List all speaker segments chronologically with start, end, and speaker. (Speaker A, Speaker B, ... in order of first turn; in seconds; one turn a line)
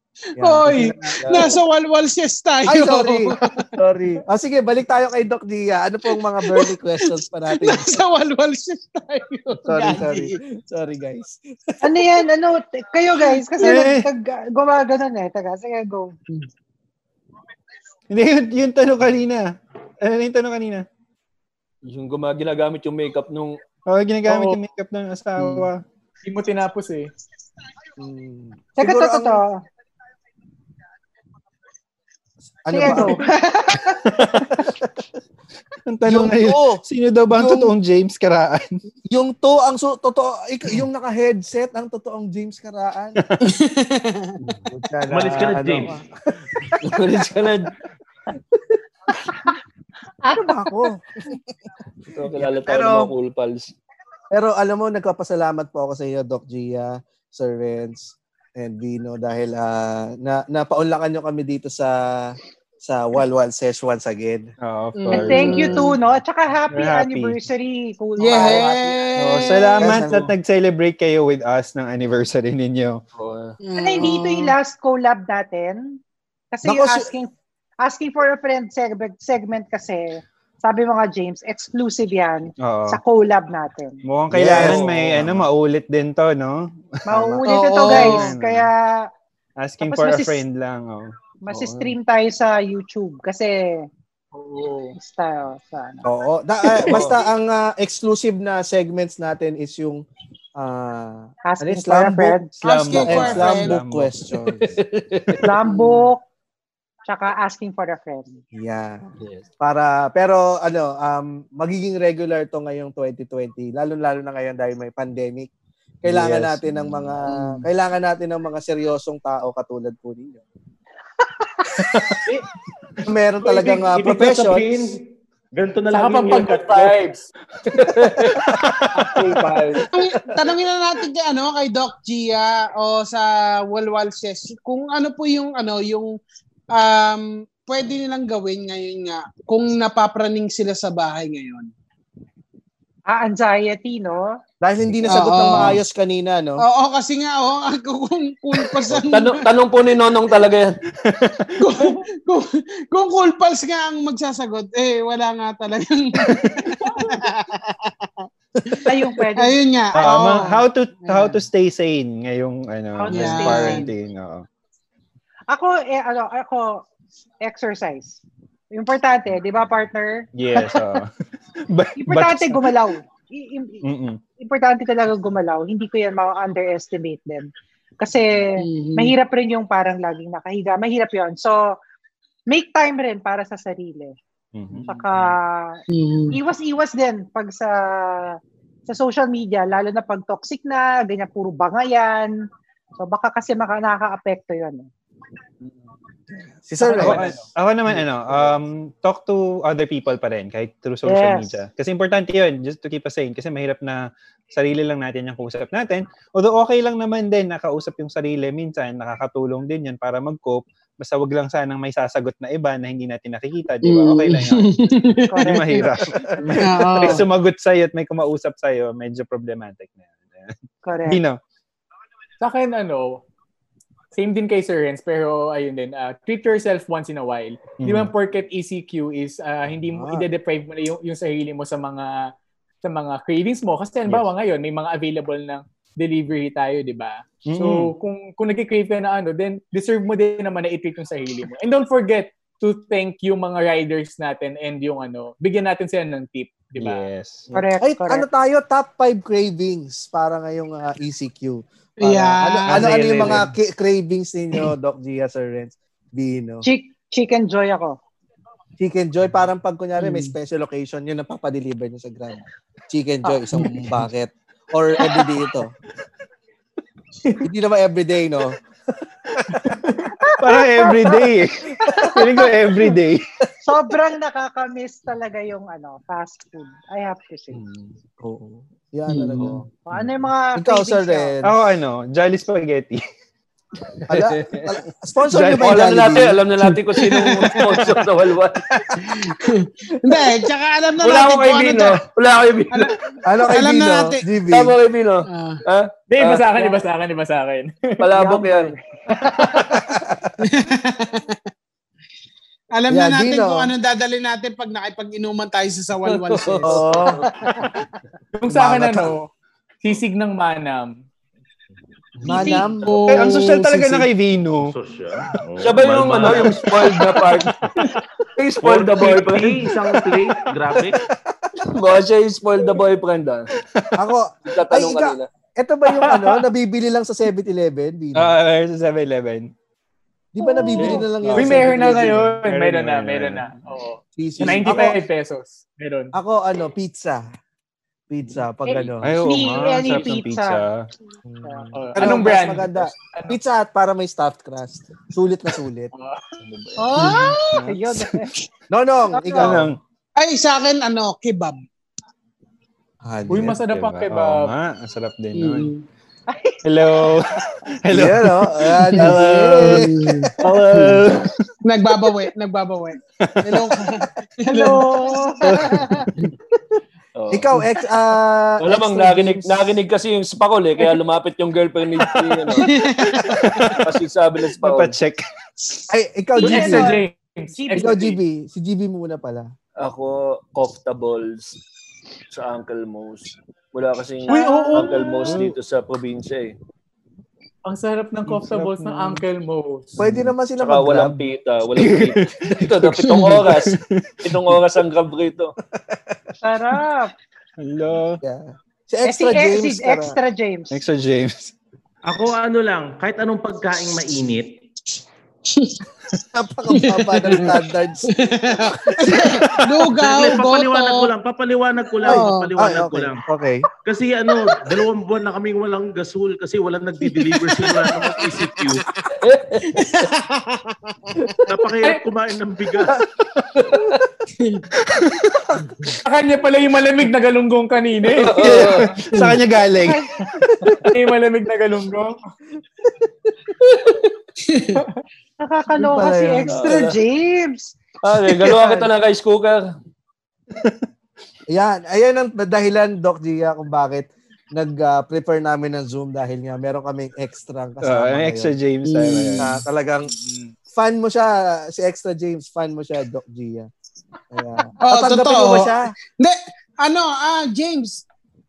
Speaker A: 0.4-1.6
Speaker B: 0.4-3.7
Speaker C: 1.3-1.5
Speaker A: 2.7-8.0
Speaker B: 6.5-10.3
Speaker A: 9.6-12.1
Speaker D: 11.8-16.2
Speaker E: 13.6-14.1
Speaker E: 18.1-19.5
Speaker E: 20.0-20.9
Speaker C: 21.9-23.6
Speaker E: 23.9-25.8
Speaker F: 24.3-24.6
Speaker F: 26.2-27.1
Speaker A: 28.0-29.4
Speaker D: 28.8-29.5
Speaker A: 32.6-33.2
Speaker D: 32.7-34.0
Speaker E: 34.0-34.6
Speaker E: 35.9-38.7
Speaker A: 36.1-36.8
Speaker A: 37.3-37.7
Speaker A: 39.1-43.2
Speaker B: 43.4-44.4
Speaker A: 44.7-47.0
Speaker G: 45.1-46.0
Speaker C: 46.8-47.7
Speaker A: 50.3-51.4
Speaker C: 52.1-53.7
Speaker A: 52.4-53.1
Speaker A: 54.3-64.5
Speaker E: 64.6-66.0
Speaker B: 65.0-65.9
Speaker D: 65.1-69.1
Speaker E: 66.7-67.4
Speaker B: 68.2-70.0
Speaker E: 69.2-73.0
Speaker A: 69.8-70.3
Speaker C: 73.2-73.6
Speaker B: 73.6-74.5
Speaker D: 73.8-76.0
Speaker D: 76.5-84.0
Speaker A: 76.6-77.1
Speaker E: 82.6-83.0
Speaker E: 84.1-88.7
Speaker A: 84.3-85.5
Speaker D: 87.1-89.1
Speaker A: 87.1-87.4
Speaker B: 87.5-88.3
Speaker E: 89.6-91.1
Speaker D: 89.8-90.4
Speaker D: 91.5-93.9
Speaker F: 94.4-94.9
Speaker D: 95.0-96.0
Speaker A: 96.0-100.0
Speaker C: 96.9-97.1
Speaker A: 100.6-102.4
Speaker D: 101.5-102.5
Speaker E: 102.6-104.8
Speaker B: 102.6-103.7
Speaker A: 102.9-104.8
Speaker C: 104.6-105.4
Speaker D: 105.4-106.2
Speaker B: 105.7-106.0
Speaker D: 107.1-108.4
Speaker A: 108.5-115.5
Speaker A: 116.0-120.4
Speaker E: 121.8-122.2
Speaker A: 123.0-124.8
Speaker G: 123.4-127.0
Speaker F: 125.9-127.3
Speaker F: 127.8-128.3
Speaker E: 128.4-129.4
Speaker F: 128.9-129.9
Speaker B: 129.9-136.1
Speaker B: 136.7-141.7
Speaker D: 143.1-144.4
Speaker A: 144.6-146.6
Speaker B: 145.1-145.8
Speaker B: 146.6-149.5
Speaker C: 149.1-150.8
Speaker E: 151.0-151.8
Speaker B: 151.6-161.4
Speaker E: 156.3-156.7
Speaker D: 158.9-160.3
Speaker E: 159.9-164.4
Speaker D: 163.0-163.9
Speaker B: 163.1-163.9
Speaker D: 165.5-166.8
Speaker D: 167.4-168.2
Speaker D: 168.7-171.0
Speaker E: 170.3-171.1
Speaker E: 171.7-172.8
Speaker D: 172.0-173.8
Speaker E: 173.8-174.2
Speaker D: 174.4-181.8
Speaker B: 178.6-179.2
Speaker D: 182.5-184.2
Speaker E: 184.5-185.4
Speaker D: 184.9-185.8
Speaker B: 185.9-186.4
Speaker D: 186.3-192.3
Speaker D: 193.0-194.9
Speaker A: 196.7-197.4
Speaker D: 196.8-197.2
Speaker E: 196.9-214.7
Speaker D: 201.1-201.5
Speaker B: 213.8-215.8
Speaker D: 215.3-215.8
Speaker E: 215.4-220.5
Speaker B: 216.5-217.3
Speaker D: 220.8-221.2
Speaker E: 221.1-221.4
Speaker F: 222.4-223.2
Speaker F: 224.1-232.3
Speaker E: 227.8-228.1
Speaker A: 229.9-230.3
Speaker F: 232.8-247.1
Speaker E: 237.5-237.9
Speaker E: 246.8-247.5
Speaker D: 247.5-248.3
Speaker A: 247.8-256.7
Speaker B: 252.0-253.4
Speaker E: 252.7-253.5
Speaker D: 256.6-258.0
Speaker A: 258.8-265.7
Speaker B: 260.0-260.3
Speaker A: 267.4-268.6
Speaker F: 269.7-270.1
Speaker D: 270.2-271.2
Speaker E: 270.4-273.2
Speaker D: 271.8-272.4
Speaker D: 273.6-277.6
Speaker A: 278.2-279.6
Speaker B: 279.1-279.5
Speaker D: 279.9-281.4
Speaker A: 280.6-281.6
Speaker E: 281.4-283.0
Speaker C: 284.1-284.7
Speaker A: 284.1-286.4
Speaker E: 285.3-285.7
Speaker C: 285.5-288.6
Speaker B: 286.6-287.9
Speaker B: 289.0-292.0
Speaker C: 291.0-292.9
Speaker B: 292.7-294.2
Speaker A: 293.2-294.8
Speaker C: 294.5-296.8
Speaker B: 295.3-295.6
Speaker F: 296.1-298.0
Speaker C: 298.0-298.7
Speaker D: 298.1-299.6
Speaker A: 299.7-300.3
Speaker B: 300.5-301.4
Speaker B: 302.8-307.0
Speaker A: 302.9-303.7
Speaker C: 306.1-307.3
Speaker A: 306.6-307.3
Speaker F: 308.4-309.3
Speaker A: 308.5-309.1
Speaker F: 309.8-311.0
Speaker A: 312.2-313.1
Speaker B: 312.3-313.9
Speaker E: 313.1-314.7
Speaker A: 313.6-314.0
Speaker G: 314.6-316.6
Speaker C: 315.6-317.6
Speaker C: 318.4-319.7
Speaker G: 318.6-321.0
Speaker A: 320.9-321.4
Speaker C: 321.7-323.5
Speaker A: 323.9-328.3
Speaker C: 324.5-325.3
Speaker F: 325.9-326.4
Speaker E: 328.2-329.5
Speaker A: 330.4-332.4
Speaker E: 330.8-333.5
Speaker F: 331.3-336.1
Speaker A: 334.2-335.0
Speaker E: 334.4-334.9
Speaker A: 336.1-337.2
Speaker A: 338.1-339.2
Speaker D: 338.7-340.6
Speaker E: 339.0-340.9
Speaker A: 341.2-345.9
Speaker F: 341.7-343.4
Speaker F: 345.9-346.4
Speaker C: 346.5-346.8
Speaker D: 346.8-348.3
Speaker B: 347.0-347.4
Speaker E: 347.5-348.1
Speaker A: 348.7-349.8
Speaker D: 349.1-349.6
Speaker E: 349.4-349.8
Speaker B: 350.2-351.6
Speaker A: 353.0-353.6
Speaker F: 353.3-354.6
Speaker E: 353.7-355.7
Speaker B: 355.4-355.8
Speaker D: 356.3-357.2
Speaker E: 356.6-361.4
Speaker A: 357.9-360.3
Speaker B: 358.9-360.9
Speaker B: 361.6-365.3
Speaker E: 363.2-363.7
Speaker D: 364.5-366.1
Speaker E: 365.5-365.9
Speaker C: 367.1-367.5
Speaker A: 367.3-369.6
Speaker C: 368.6-372.7
Speaker B: 372.6-373.5
Speaker E: 373.1-373.9
Speaker C: 373.8-375.0
Speaker E: 374.6-375.9
Speaker A: 375.9-376.9
Speaker D: 376.4-378.1
Speaker F: 376.4-378.1
Speaker A: 377.8-379.5
Speaker C: 379.8-381.6
Speaker C: 382.3-386.6
Speaker D: 384.3-384.8
Speaker F: 384.3-385.4
Speaker E: 385.3-385.6
Speaker F: 387.7-390.0
Speaker E: 388.3-389.2
Speaker A: 390.0-391.2
Speaker C: 390.6-395.6
Speaker E: 391.8-394.6
Speaker A: 395.9-396.1
Speaker D: 396.4-397.1
Speaker E: 397.6-398.2
Speaker A: 398.2-400.2
Speaker D: 399.1-400.8
Speaker E: 400.7-401.5
Speaker G: 402.1-404.5
Speaker B: 405.5-405.8
Speaker A: 406.3-408.8
Speaker B: 406.7-407.6
Speaker B: 408.2-411.1
Speaker G: 410.0-413.2
Speaker B: 412.0-412.5
Speaker A: 412.0-413.7
Speaker G: 413.9-418.8
Speaker C: 419.2-419.9
Speaker B: 419.7-421.5
Speaker G: 421.5-423.0
Speaker C: 423.6-424.0
Speaker E: 424.8-425.2
Speaker F: 426.1-428.6
Speaker C: 428.1-428.9
Speaker E: 428.4-430.9
Speaker D: 429.8-430.1
Speaker A: 430.4-430.8
Speaker F: 430.9-432.2
Speaker B: 434.4-434.8
Speaker D: 435.4-437.8
Speaker A: 435.7-436.9
Speaker C: 436.5-437.0
Speaker C: 438.0-439.7
Speaker E: 440.6-440.9
Speaker A: 441.5-448.5
Speaker E: 447.8-449.5
Speaker B: 448.9-449.5
Speaker A: 449.4-450.1
Speaker F: 450.2-450.5
Speaker A: 450.7-453.7
Speaker A: 454.3-455.9
Speaker B: 454.9-458.0